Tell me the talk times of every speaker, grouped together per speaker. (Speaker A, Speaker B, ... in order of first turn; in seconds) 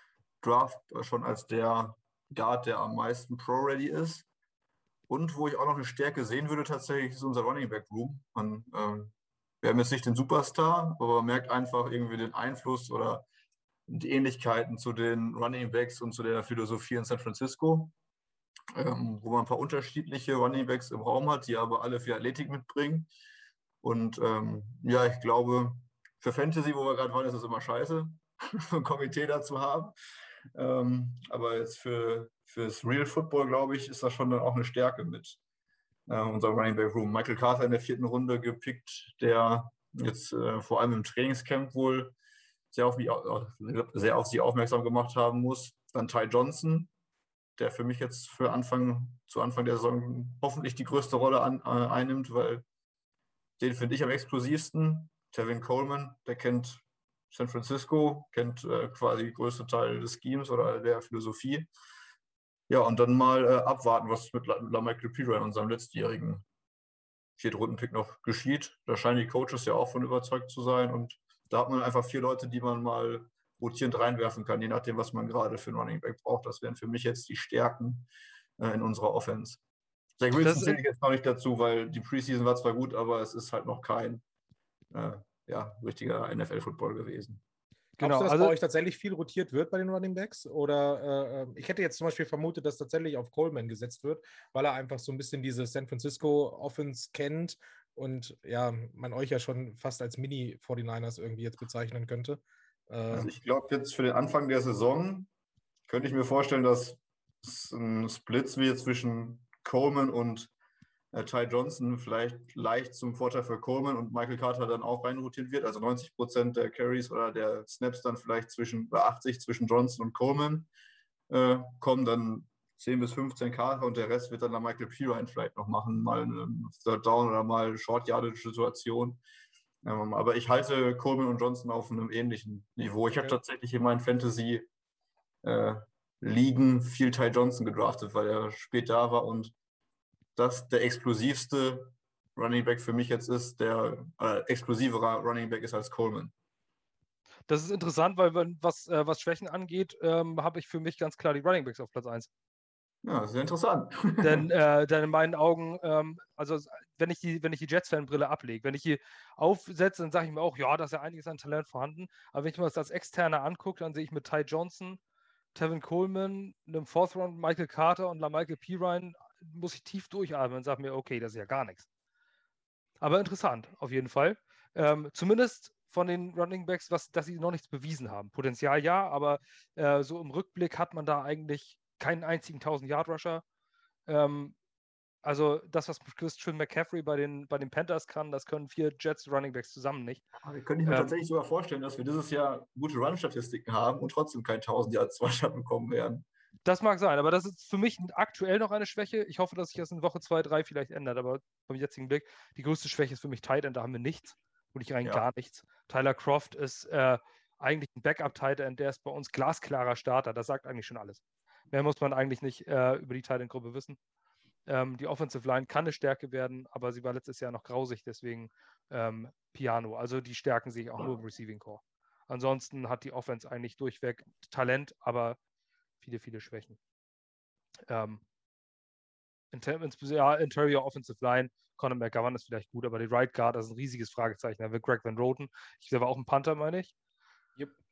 Speaker A: 0.4-4.2, 5.1-13.2, 13.9-17.9, 18.8-23.1, 23.8-29.9, 30.5-35.4, 36.1-42.1, 42.7-46.9, 47.6-52.6, 53.6-61.7, 62.7-66.4, 67.4-78.1, 78.6-79.6, 80.2-84.2, 84.9-87.4, 103.1-105.3, 105.9-110.5, 111.1-120.7, 121.3-129.2, 129.8-134.7, 135.4-139.5, 140.3-146.3, 153.0-154.5, 190.4-196.2
Speaker B: 80.4-80.8, 88.0-88.5, 147.5-152.3, 154.2-165.0, 165.5-171.9, 173.0-183.4, 184.1-184.5, 185.2-190.2, 190.9-191.1, 196.6-214.0, 214.7-225.4, 226.0-226.8, 227.9-228.2, 229.5-236.9
Speaker C: 88.0-103.3